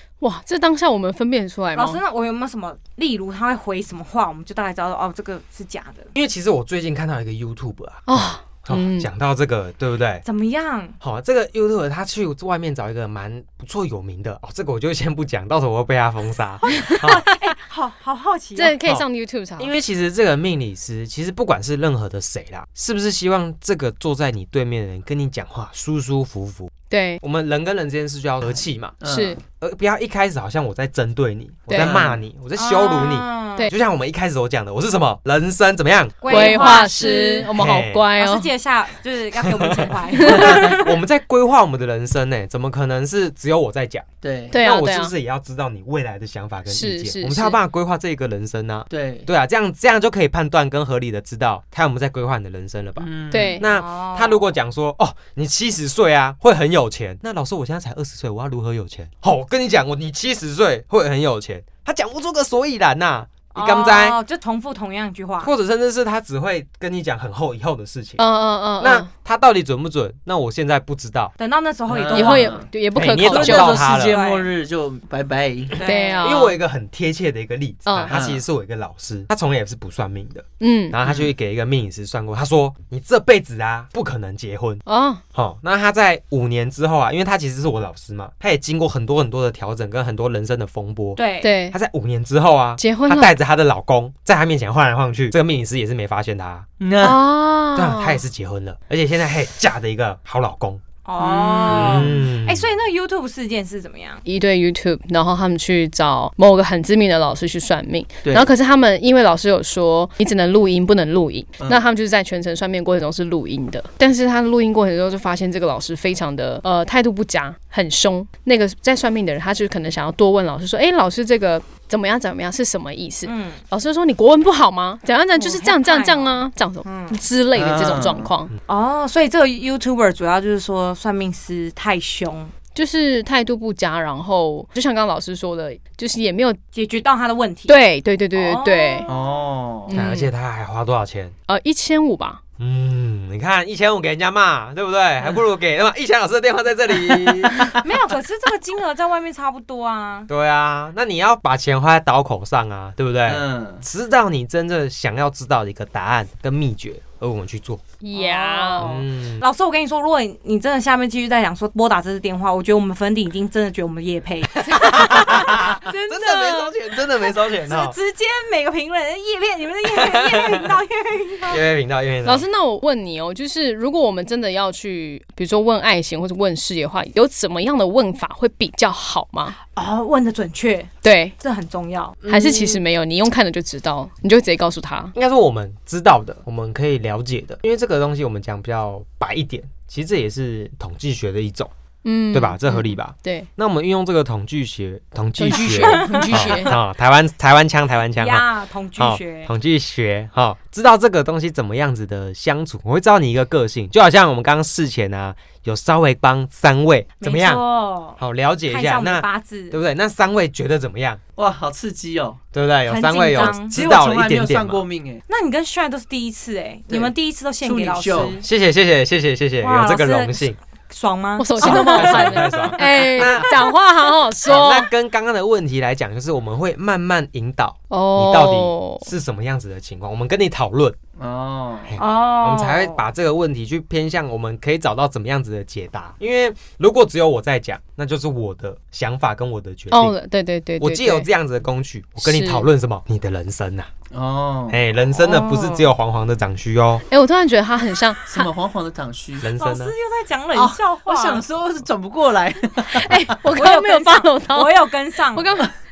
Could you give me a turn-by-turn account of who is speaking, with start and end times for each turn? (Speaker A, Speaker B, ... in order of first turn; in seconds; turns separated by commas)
Speaker A: 0.2-2.0, Speaker B: 1.7-6.1, Speaker C: 6.1-10.2, Speaker A: 8.1-9.1, Speaker B: 10.2-11.0, Speaker C: 11.0-17.2, Speaker B: 16.7-18.8, Speaker A: 18.6-19.7, Speaker C: 19.6-28.9, Speaker A: 26.9-27.2, Speaker D: 28.5-29.4, Speaker A: 29.1-29.4, Speaker C: 29.6-36.8, Speaker A: 31.7-32.0, Speaker D: 31.7-32.2, Speaker B: 32.5-33.7, Speaker B: 36.2-37.5, Speaker A: 36.3-38.5, Speaker C: 37.5-38.0, Speaker B: 38.2-41.0, Speaker C: 39.4-64.2, Speaker A: 40.2-40.7, Speaker D: 44.2-44.6, Speaker A: 44.5-45.1, Speaker A: 46.7-47.6, Speaker D: 48.9-49.3, Speaker D: 53.0-53.6, Speaker A: 53.3-53.6, Speaker B: 53.6-54.4, Speaker B: 63.5-65.5, Speaker C: 65.4-68.2, Speaker A: 68.2-69.1, Speaker C: 68.8-71.3, Speaker B: 71.4-72.6, Speaker D: 71.9-75.8, Speaker A: 72.1-73.8, Speaker C: 72.9-74.2, Speaker B: 73.9-74.5, Speaker B: 75.8-76.5, Speaker A: 75.8-76.5, Speaker C: 76.2-84.8, Speaker A: 77.8-78.1, Speaker D: 78.1-78.4, Speaker A: 80.6-81.0, Speaker D: 81.0-81.3, Speaker A: 84.8-85.2, Speaker C: 85.3-91.2, Speaker B: 91.2-91.5, Speaker A: 91.4-91.8, Speaker C: 91.7-96.7, Speaker A: 92.8-93.3, Speaker D: 96.8-97.2, Speaker A: 97.0-98.2, Speaker C: 97.7-100.8, Speaker B: 101.0-104.2, Speaker D: 101.2-102.2, Speaker C: 101.7-102.7, Speaker A: 104.2-128.5, Speaker D: 111.6-111.8, Speaker B: 123.2-123.6, Speaker B: 125.3-127.2, Speaker D: 127.5-128.3, Speaker B: 128.7-132.5, Speaker A: 132.7-136.6, Speaker B: 136.7-137.8, Speaker A: 137.7-139.1, Speaker B: 138.3-139.2, Speaker D: 139.1-139.9, Speaker A: 139.9-140.3, Speaker C: 139.9-141.3, Speaker A: 141.5-142.4, Speaker C: 142.6-147.8, Speaker B: 147.8-150.3, Speaker C: 150.3-157.8, Speaker D: 153.2-153.8, Speaker A: 158.0-158.9, Speaker B: 158.1-171.6, Speaker C: 158.8-159.4, Speaker C: 164.8-167.9, Speaker C: 170.0-170.6, Speaker C: 171.5-172.4, Speaker A: 172.2-179.6, Speaker B: 179.6-182.2, Speaker A: 181.0-181.3, Speaker C: 182.2-182.8, Speaker A: 182.3-185.1, Speaker C: 185.1-191.7, Speaker A: 192.0-193.5, Speaker C: 192.3-198.4, Speaker A: 195.4-196.7, Speaker B: 195.7-196.7, Speaker D: 196.0-196.5, Speaker B: 198.2-199.5, Speaker C: 199.0-207.6, Speaker B: 207.2-209.8, Speaker C: 208.2-211.2, Speaker D: 211.3-212.4, Speaker C: 212.5-214.8, Speaker B: 212.8-213.8, Speaker D: 213.4-215.2, Speaker B: 215.3-218.4, Speaker D: 216.9-218.4, Speaker C: 218.4-220.6, Speaker B: 219.6-223.7, Speaker A: 221.4-224.9, Speaker C: 221.6-223.5, Speaker C: 224.4-231.0, Speaker A: 227.9-229.1, Speaker D: 231.2-231.9, Speaker C: 231.9-240.2, Speaker B: 232.0-233.0, Speaker A: 239.9-241.3, Speaker C: 240.8-243.9, Speaker A: 242.2-242.7, Speaker D: 244.1-244.8, Speaker C: 244.7-247.0, Speaker B: 245.2-245.8, Speaker A: 247.1-248.5, Speaker D: 248.2-249.5, Speaker C: 249.4-249.9, Speaker B: 249.6-251.4, Speaker D: 250.5-253.4, Speaker A: 252.9-254.8, Speaker B: 253.5-255.7, Speaker A: 255.3-255.7